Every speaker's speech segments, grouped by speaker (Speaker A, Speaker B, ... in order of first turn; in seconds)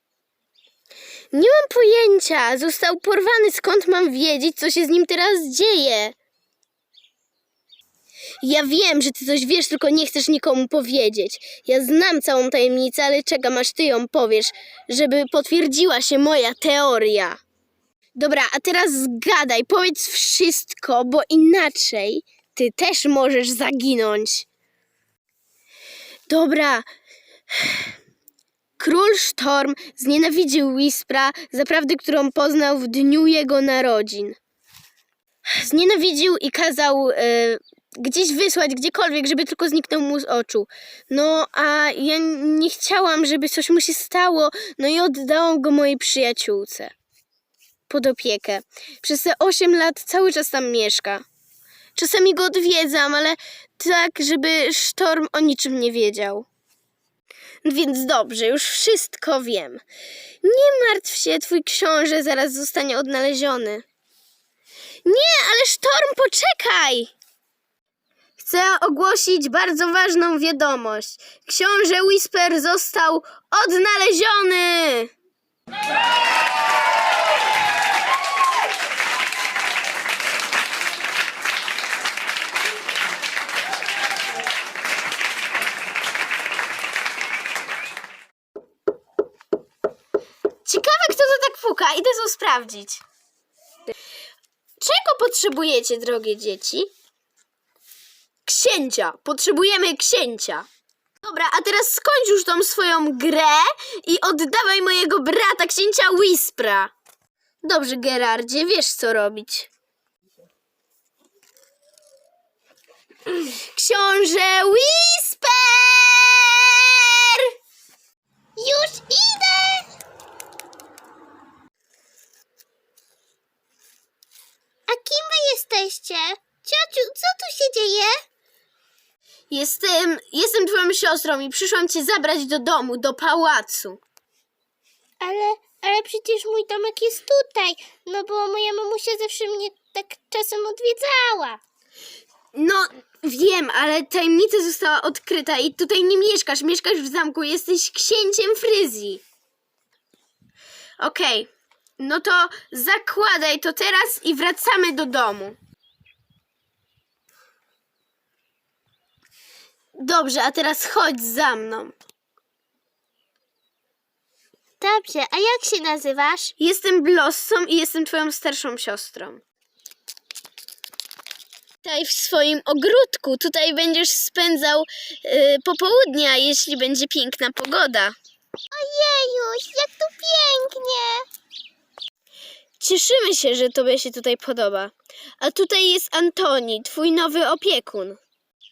Speaker A: 1.3-6.2, 8.4-17.4, 18.1-24.5, 26.3-26.9, 27.5-27.9, 28.8-34.4, 35.5-46.9, 47.9-51.2, 51.9-56.5, 57.6-59.8, 60.4-63.8, 65.0-67.1, 68.4-75.1, 90.6-93.0, 94.8-96.9, 98.5-100.7, 101.2-106.9, 107.6-109.7, 113.3-117.5, 129.5-134.0, 142.5-149.2, 151.0-155.6, 160.0-161.9, 166.6-169.4, 171.8-178.2, 182.8-188.2
Speaker B: 118.6-119.9, 124.9-128.1, 135.2-141.6, 164.8-166.5, 178.7-181.2